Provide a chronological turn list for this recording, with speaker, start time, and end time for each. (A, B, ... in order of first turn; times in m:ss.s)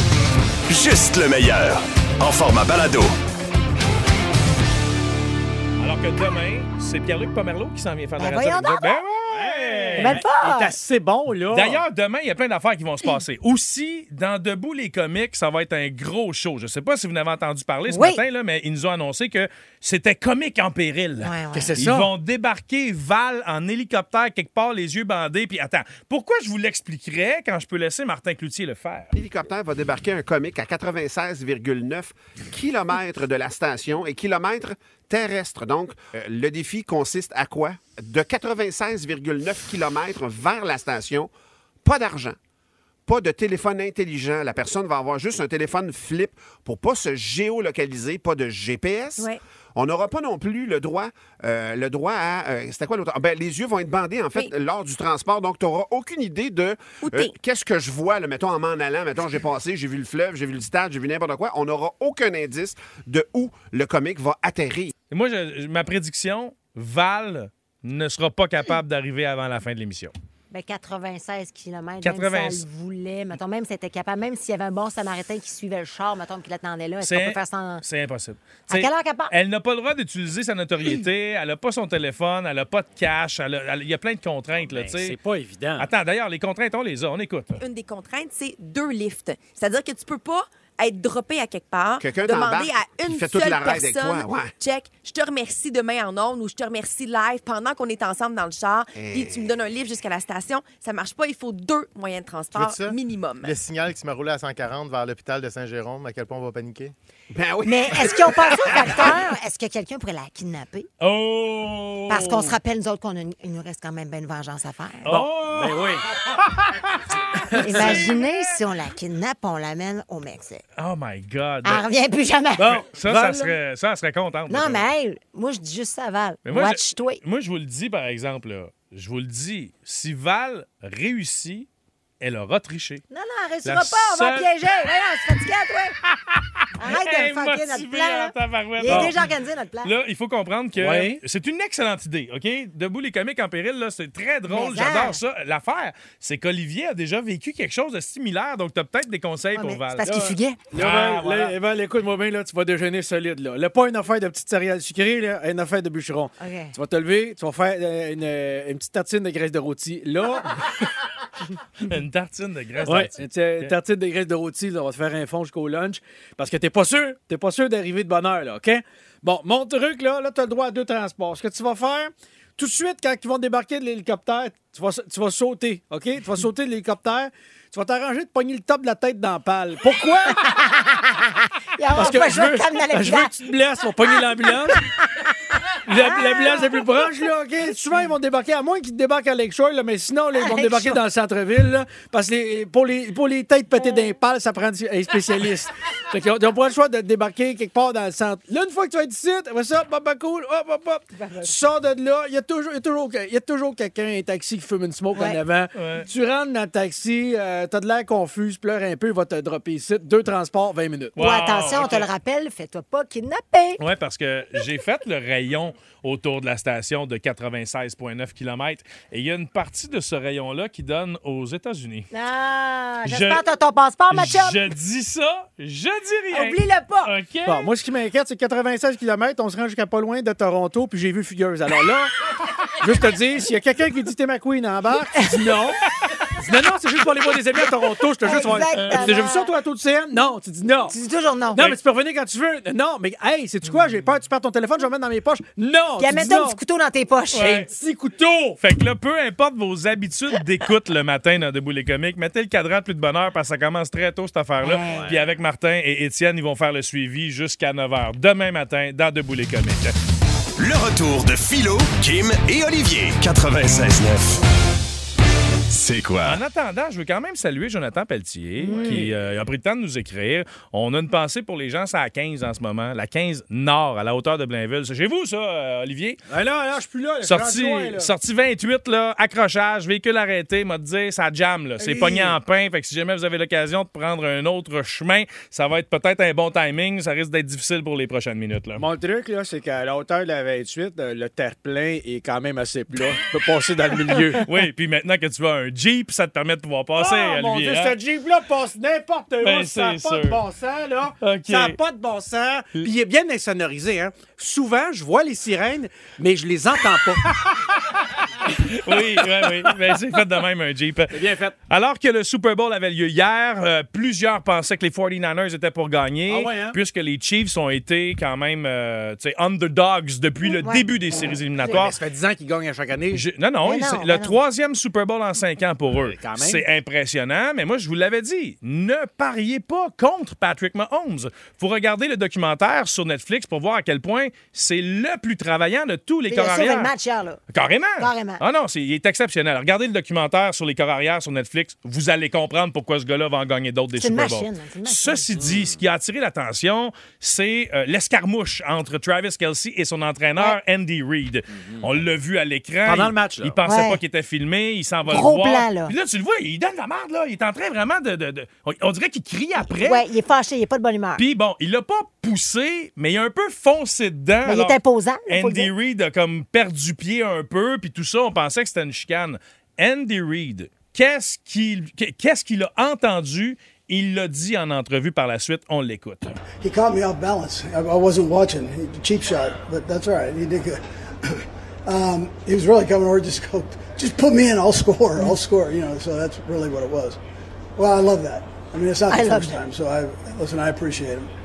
0:00.7-0:03.2 A
0:05.8-0:10.2 B
0:08.2-0:10.7 C
0:09.3-0:11.8 D
0:11.5-0:29.1 B
0:17.9-0:18.2 C
0:21.2-0:21.7 C
0:21.5-0:22.1 D
0:29.1-0:41.3 E
0:41.8-0:42.4 E
0:43.1-1:04.9 E
0:57.0-0:57.3 F
1:05.1-1:10.1 B
1:10.5-1:17.8 C
1:12.0-1:12.7 B
1:17.0-1:25.2 B
1:18.7-1:19.3 C
1:24.6-1:25.9 D
1:25.8-1:27.6 B
1:27.6-1:43.5 F
1:32.0-1:34.5 E
1:38.9-1:39.5 E
1:42.5-1:46.9 G
1:47.3-1:49.1 E
1:47.6-1:50.9 C
1:51.0-1:52.5 B
1:52.1-1:55.1 C
1:55.0-1:55.8 B
1:55.1-1:56.0 D
1:56.4-1:58.6 B
1:57.3-1:58.1 D
1:57.6-2:00.6 C
2:00.8-2:01.8 B
2:01.6-2:02.6 C
2:02.6-2:03.6 D
2:02.6-2:04.8 B
2:04.5-2:07.2 C
2:06.5-2:11.7 B
2:12.2-2:13.0 B
2:13.1-2:15.9 C
2:13.6-2:14.5 B
2:16.3-2:19.2 B
2:16.8-2:19.9 C
2:18.8-2:19.1 D
2:19.8-2:30.2 B
2:20.8-2:21.2 D
2:24.5-2:25.2 C
2:29.6-2:30.6 C
2:30.0-2:40.9 D
2:30.7-2:31.5 B
2:36.4-2:36.7 C
2:41.8-2:43.7 B
2:42.8-3:00.6 D
3:00.4-3:03.3 C
3:01.9-3:04.8 D
3:05.8-3:31.2 D
3:06.0-3:06.7 C
3:10.4-3:11.0 C
3:25.1-3:25.4 C
3:25.8-3:26.1 B
3:31.2-3:32.1 B
3:31.2-3:33.8 C
3:33.8-3:42.1 B
3:42.1-3:44.6 C
3:43.0-3:43.4 B
3:44.1-3:47.7 B
3:46.3-3:47.1 C
3:47.5-3:52.1 D
3:52.8-3:55.8 D
3:56.4-4:00.9 D
3:58.2-3:59.5 C
3:58.8-3:59.2 B
4:00.9-4:01.7 C
4:01.6-4:06.6 D
4:06.0-4:07.6 C
4:07.3-4:07.7 B
4:07.4-4:08.6 D
4:08.6-4:19.9 B
4:14.6-4:15.1 C
4:14.9-4:15.3 D
4:20.6-4:24.4 A
4:25.7-4:26.4 A
4:26.2-4:36.2 B
4:28.6-4:29.0 C
4:28.7-4:29.1 D
4:36.3-4:38.1 D
4:37.2-4:48.8 B
4:41.8-4:42.4 D
4:48.8-4:54.5 D
4:54.4-4:58.0 B
4:57.0-5:07.4 D
4:59.4-5:00.4 B
5:01.2-5:01.8 B
5:08.5-5:09.7 D
5:08.5-5:22.0 B
5:11.1-5:11.6 D
5:16.3-5:16.8 D
5:20.4-5:20.9 C
5:21.6-5:23.2 D
5:23.1-5:36.9 B
5:23.6-5:24.4 C
5:25.9-5:26.6 D
5:36.3-5:37.4 C
5:37.5-6:00.0 B
5:38.0-5:38.4 C
5:44.0-5:45.2 C
5:45.4-5:45.8 D
5:51.6-5:51.9 D
5:52.8-5:53.6 D
5:53.6-5:54.0 C
5:55.1-5:55.9 C
5:59.6-6:01.2 C
6:01.2-6:04.8 B
6:04.4-6:05.7 C
6:05.3-6:16.4 B
6:16.6-6:27.2 H
6:27.8-6:31.3 H
6:29.1-6:29.6 C